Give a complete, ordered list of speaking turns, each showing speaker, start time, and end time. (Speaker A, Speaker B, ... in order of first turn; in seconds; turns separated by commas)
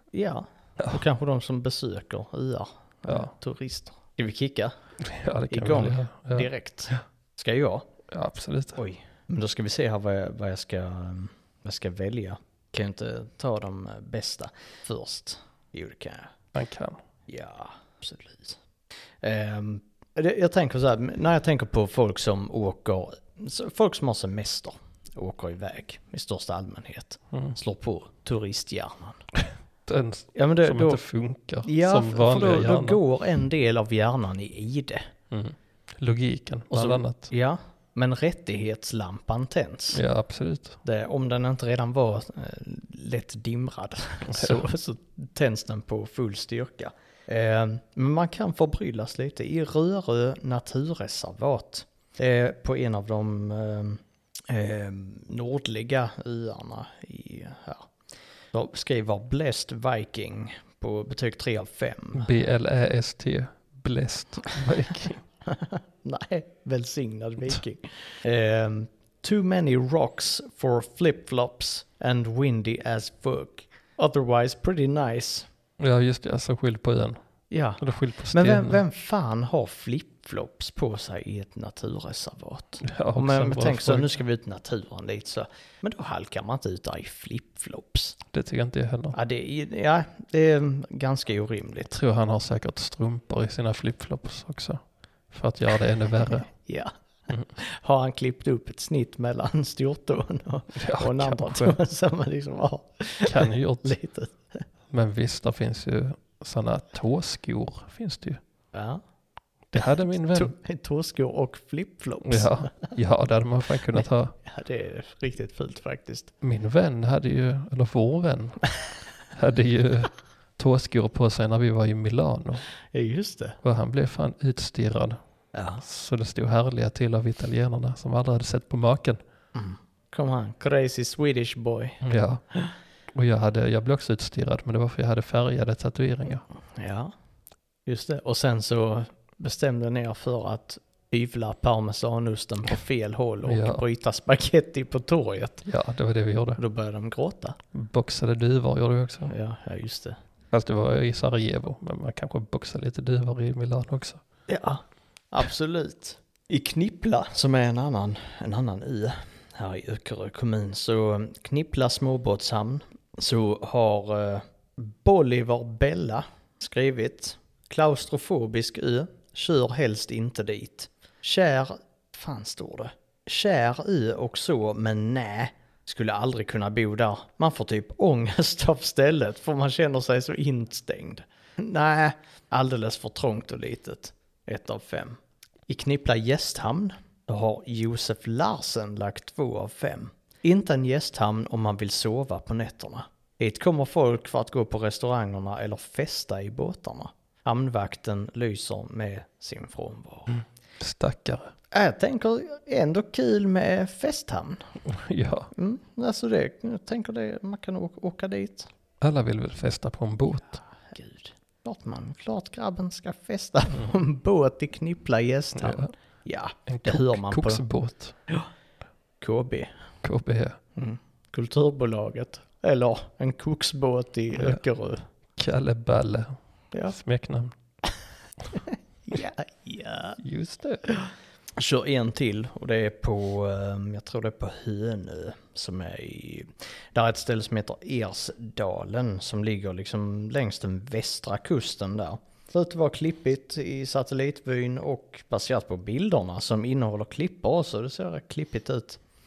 Speaker A: 0.1-4.7, Speaker B: 5.0-7.0, Speaker A: 5.5-7.9, Speaker B: 8.1-8.8, Speaker A: 8.8-16.4, Speaker B: 16.5-17.0, Speaker A: 17.3-18.6, Speaker A: 19.2-29.2, Speaker B: 29.4-33.0, Speaker A: 30.4-31.0, Speaker A: 31.6-35.1, Speaker B: 35.3-37.3, Speaker A: 36.7-40.0, Speaker B: 39.9-40.8, Speaker A: 40.8-57.9, Speaker B: 44.3-44.7, Speaker A: 58.5-62.3, Speaker B: 62.1-65.2, Speaker A: 65.5-75.5, Speaker B: 75.8-77.2, Speaker A: 77.5-88.2, Speaker B: 77.8-78.8, Speaker B: 82.8-84.2, Speaker B: 88.3-89.2, Speaker A: 89.1-92.0, Speaker B: 91.9-96.5, Speaker A: 96.5-96.9, Speaker A: 97.5-104.6, Speaker B: 100.8-101.8, Speaker B: 103.2-104.0, Speaker B: 104.9-108.4, Speaker A: 108.7-109.0, Speaker B: 109.7-110.5, Speaker A: 109.8-113.0, Speaker B: 112.2-114.3, Speaker A: 113.9-116.3, Speaker B: 116.4-118.6, Speaker B: 119.3-122.7, Speaker A: 122.9-123.6, Speaker B: 123.6-125.2, Speaker A: 125.5-125.8, Speaker B: 125.8-129.2, Speaker A: 129.6-132.7, Speaker B: 132.0-132.4, Speaker B: 133.1-136.4, Speaker A: 136.8-137.1, Speaker A: 137.9-145.7, Speaker B: 143.4-143.8, Speaker B: 145.7-146.6, Speaker A: 146.6-147.6, Speaker B: 147.7-149.3, Speaker A: 149.3-150.2, Speaker B: 150.5-154.2, Speaker A: 154.5-200.4, Speaker B: 200.8-201.5, Speaker A: 201.7-204.6, Speaker B: 204.8-205.5, Speaker A: 205.6-208.7, Speaker B: 209.0-210.6, Speaker A: 210.8-217.6, Speaker B: 215.6-215.9, Speaker B: 216.7-218.2, Speaker A: 219.2-219.7, Speaker B: 220.0-220.6, Speaker A: 220.8-225.1, Speaker B: 224.3-224.6, Speaker B: 225.4-226.3, Speaker B: 226.9-227.6, Speaker A: 228.5-230.2, Speaker B: 230.2-230.9, Speaker A: 231.6-249.0